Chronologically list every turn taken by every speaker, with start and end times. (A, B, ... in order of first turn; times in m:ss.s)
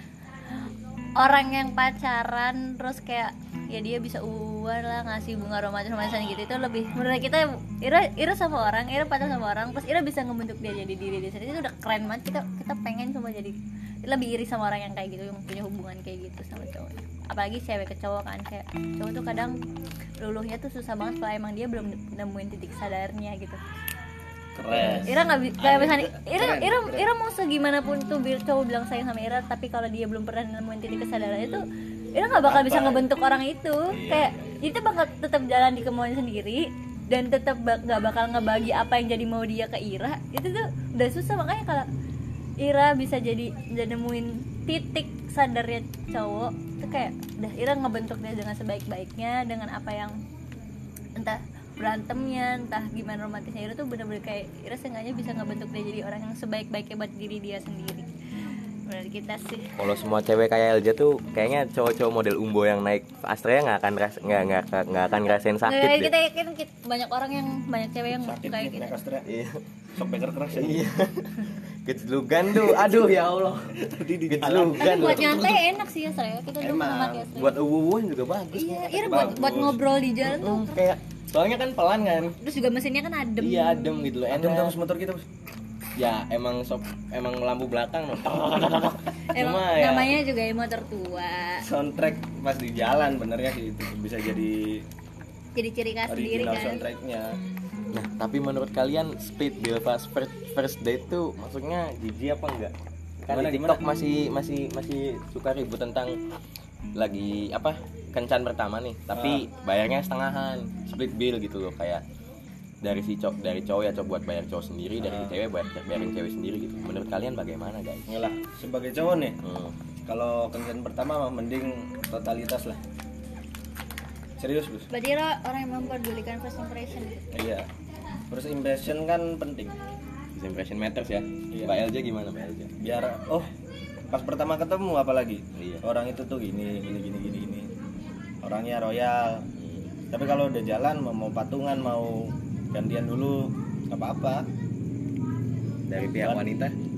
0:00.5-0:19.6 A
0:20.2-0:23.6 A
0:24.6-0:27.1 B
0:24.7-0:25.2 C
0:25.0-0:41.9 A
0:32.4-0:33.1 B
0:33.9-0:34.6 C
0:42.6-0:50.2 A
0:51.2-0:59.8 A
0:59.8-1:06.1 C
1:05.6-1:08.9 A
1:08.2-1:09.3 B
1:09.3-1:09.6 C
1:10.0-1:10.9 B
1:10.6-1:15.6 C
1:12.6-1:13.0 B
1:13.8-1:15.5 B
1:14.8-1:17.6 A
1:16.6-1:17.3 B
1:17.4-1:19.3 C
1:18.5-1:20.8 A
1:19.0-1:19.8 B
1:20.2-1:22.4 C
1:22.4-1:24.0 A
1:23.4-1:24.8 C
1:24.3-1:25.2 B
1:26.0-1:30.2 C
1:29.3-1:31.6 A
1:31.6-1:34.9 B
1:35.6-1:36.8 A
1:36.1-1:37.3 B
1:37.9-1:42.7 C
1:43.2-1:46.2 C
1:43.3-1:43.8 B
1:47.0-1:52.0 C
1:49.1-1:49.5 B
1:52.8-1:58.2 C
1:55.0-1:55.4 B
1:58.1-1:59.4 B
1:59.4-1:59.7 C
2:00.1-2:02.8 B
2:04.4-2:04.9 B
2:04.9-2:07.3 A
2:07.3-2:07.7 B
2:08.3-2:09.8 B
2:10.4-2:12.7 C
2:11.5-2:11.8 B
2:12.8-2:13.5 B
2:14.1-2:17.7 B
2:15.6-2:15.8 C
2:18.4-2:19.5 B
2:19.6-2:19.9 C
2:20.1-2:24.5 B
2:25.9-2:26.7 C
2:26.2-2:26.4 B